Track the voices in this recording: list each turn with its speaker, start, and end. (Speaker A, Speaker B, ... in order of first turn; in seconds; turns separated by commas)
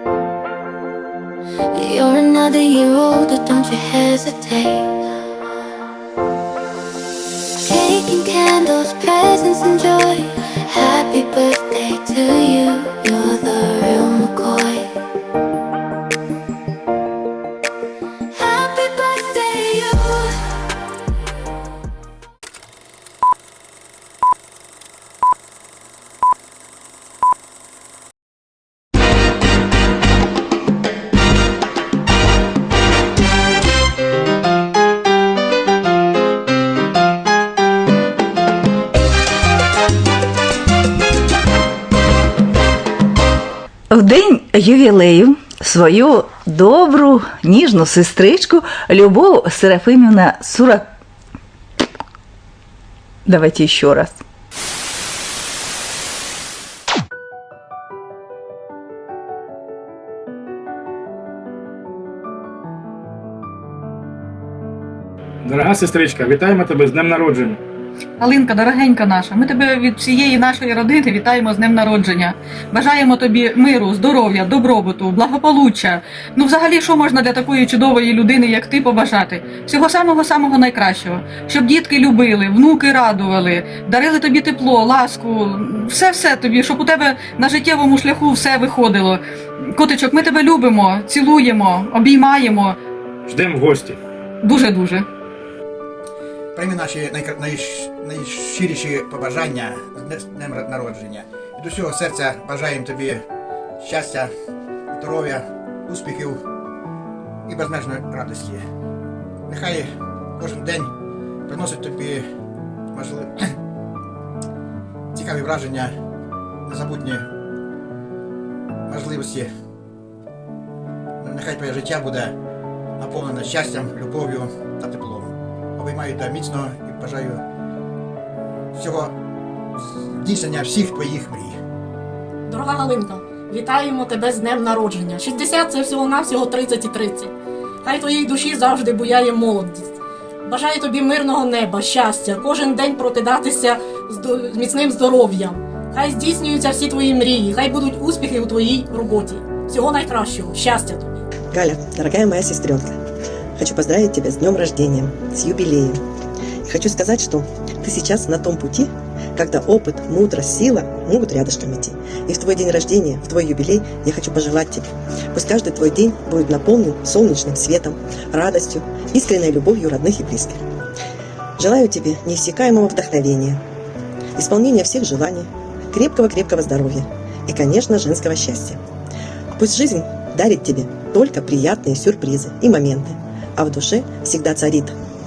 Speaker A: 1.7-5.0, Speaker A: 7.6-14.9, Speaker A: 18.3-20.4, Speaker B: 43.9-50.9, Speaker B: 53.3-54.1, Speaker C: 65.5-67.5, Speaker D: 68.2-89.2, Speaker D: 89.7-92.7, Speaker C: 93.3-93.9, Speaker D: 94.4-95.0, Speaker E: 96.5-103.2, Speaker E: 103.8-104.3, Speaker E: 105.0-106.4, Speaker E: 107.5-108.6, Speaker E: 109.5-109.8, Speaker E: 110.4-110.9, Speaker E: 111.5-112.2, Speaker E: 112.9-113.3, Speaker E: 115.1-115.9, Speaker E: 116.7-117.2, Speaker E: 118.9-119.5, Speaker E: 121.2-122.3, Speaker E: 123.0-127.4, Speaker E: 128.8-129.1, Speaker E: 130.2-131.5, Speaker F: 132.5-137.3, Speaker F: 137.8-139.9, Speaker F: 140.5-151.1, Speaker G: 151.5-152.9, Speaker G: 153.6-156.0, Speaker G: 156.7-170.6, Speaker G: 171.6-173.6, Speaker G: 174.3-178.8, Speaker G: 179.6-184.9